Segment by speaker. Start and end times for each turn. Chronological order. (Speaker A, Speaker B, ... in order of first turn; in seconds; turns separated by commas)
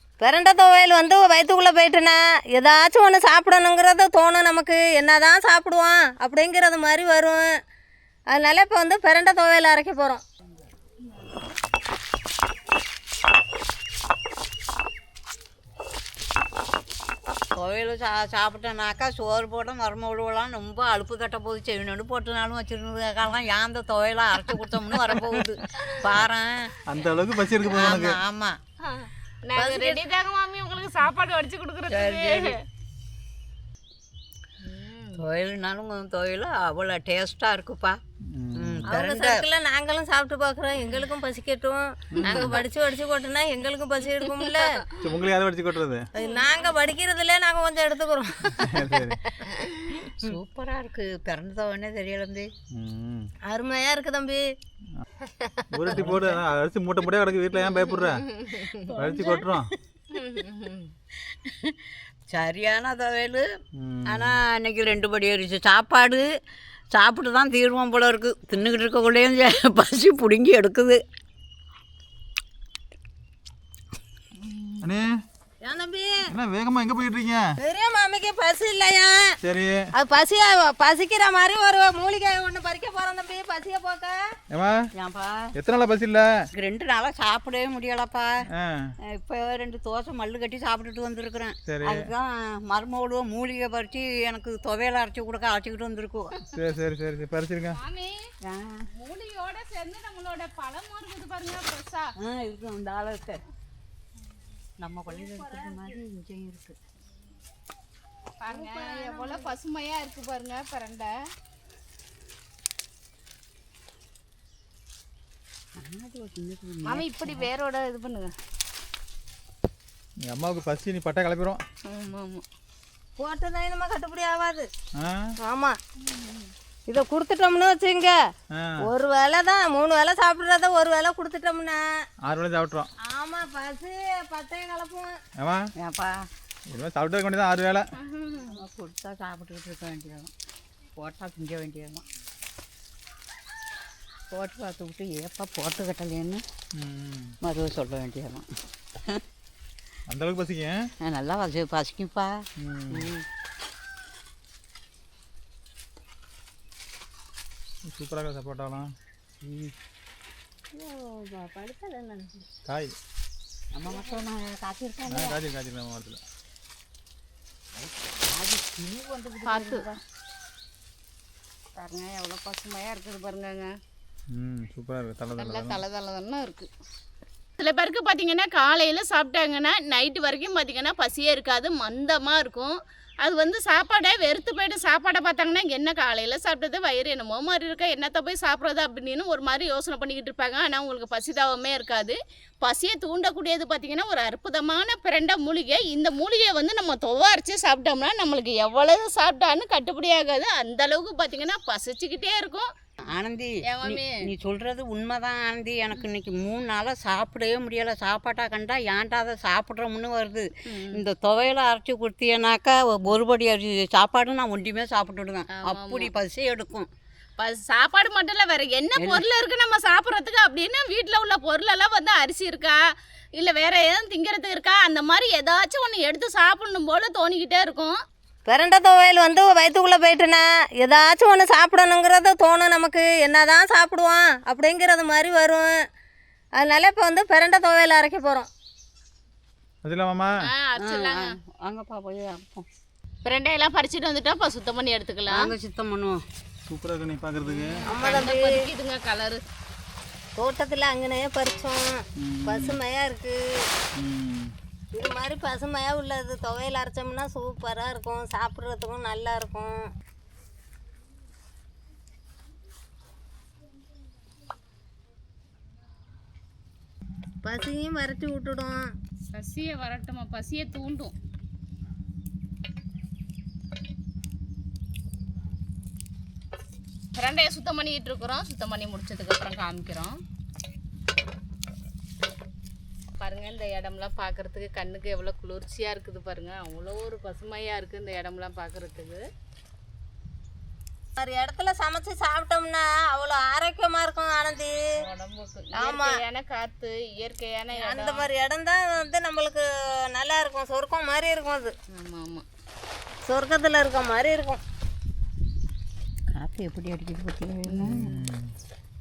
Speaker A: 0.2-7.5, Speaker A: 8.3-10.2, Speaker B: 17.5-26.7, Speaker C: 25.8-26.1, Speaker D: 26.9-28.2, Speaker B: 27.7-28.6, Speaker C: 28.8-32.5, Speaker A: 29.6-30.0, Speaker B: 31.9-32.5, Speaker C: 34.6-35.2, Speaker B: 35.2-38.0, Speaker D: 38.4-39.0, Speaker B: 38.6-39.4, Speaker A: 38.9-44.7, Speaker D: 42.1-42.6, Speaker C: 44.3-44.7, Speaker D: 45.0-46.0, Speaker A: 46.2-48.8, Speaker C: 46.2-46.5, Speaker D: 48.6-49.2, Speaker C: 49.4-50.0, Speaker B: 50.2-52.5, Speaker D: 52.7-53.3, Speaker A: 53.5-54.4, Speaker C: 55.4-55.6, Speaker D: 55.7-58.2, Speaker B: 55.9-56.4, Speaker C: 57.8-58.9, Speaker D: 58.9-59.7, Speaker C: 60.1-60.9, Speaker B: 61.5-61.8, Speaker B: 62.3-63.5, Speaker D: 63.8-64.4, Speaker B: 64.1-66.2, Speaker B: 66.9-71.0, Speaker C: 74.5-74.8, Speaker D: 74.8-75.1, Speaker A: 75.6-76.2, Speaker D: 76.3-77.4, Speaker A: 77.6-79.2, Speaker D: 79.4-79.8, Speaker A: 79.9-84.2, Speaker D: 84.5-84.8, Speaker B: 85.0-85.5, Speaker D: 85.6-86.3, Speaker B: 86.5-88.3, Speaker D: 88.5-88.9, Speaker B: 89.1-96.3, Speaker D: 91.7-92.1, Speaker D: 96.5-97.8, Speaker C: 97.7-98.2, Speaker B: 98.5-98.8, Speaker C: 99.0-102.1, Speaker B: 102.2-103.4, Speaker B: 104.8-106.8, Speaker C: 105.1-106.0, Speaker C: 108.4-111.2, Speaker A: 108.5-109.5, Speaker B: 115.8-117.5, Speaker C: 116.9-118.3, Speaker D: 120.3-121.6, Speaker C: 121.9-122.4, Speaker A: 123.2-124.7, Speaker D: 125.0-125.3, Speaker A: 125.5-125.8, Speaker A: 126.9-128.2, Speaker D: 128.5-128.8, Speaker A: 128.8-131.8, Speaker D: 132.2-132.9, Speaker A: 133.1-135.1, Speaker D: 135.4-135.6, Speaker B: 135.8-136.2, Speaker D: 136.7-137.8, Speaker C: 138.1-138.5, Speaker B: 138.4-140.3, Speaker B: 141.0-142.0, Speaker B: 144.3-146.4, Speaker D: 146.8-147.3, Speaker B: 147.4-148.5, Speaker D: 150.1-150.8, Speaker B: 151.0-153.2, Speaker D: 152.6-153.1, Speaker D: 157.9-158.9, Speaker B: 159.4-159.7, Speaker B: 160.7-162.4, Speaker D: 162.7-162.9, Speaker B: 163.7-165.4, Speaker C: 163.9-164.2, Speaker D: 165.1-166.2, Speaker B: 167.8-169.9, Speaker C: 169.5-169.9, Speaker C: 171.8-173.7, Speaker D: 174.3-175.8, Speaker C: 175.4-176.7, Speaker C: 177.6-202.7, Speaker B: 203.1-216.9, Speaker C: 203.7-204.2, Speaker C: 210.7-211.0, Speaker C: 215.5-216.1, Speaker C: 217.4-222.8, Speaker B: 219.0-219.2, Speaker C: 223.4-228.0, Speaker A: 228.5-235.7, Speaker A: 236.6-238.5, Speaker D: 239.8-240.3, Speaker C: 240.4-241.3, Speaker B: 240.8-242.7, Speaker C: 243.2-245.5, Speaker B: 245.3-246.2, Speaker D: 246.7-247.8, Speaker A: 247.9-248.6, Speaker C: 247.9-249.4, Speaker A: 250.4-253.4, Speaker D: 252.2-252.8, Speaker D: 254.0-254.5, Speaker A: 254.9-259.8, Speaker A: 267.4-268.9, Speaker C: 269.3-271.1, Speaker C: 277.1-280.2, Speaker C: 283.2-289.2, Speaker A: 291.2-294.8, Speaker C: 295.0-298.3, Speaker A: 295.8-296.2, Speaker A: 297.8-301.7, Speaker C: 301.9-302.4, Speaker A: 303.3-304.6, Speaker B: 306.3-308.2, Speaker C: 307.7-308.0, Speaker D: 307.9-308.5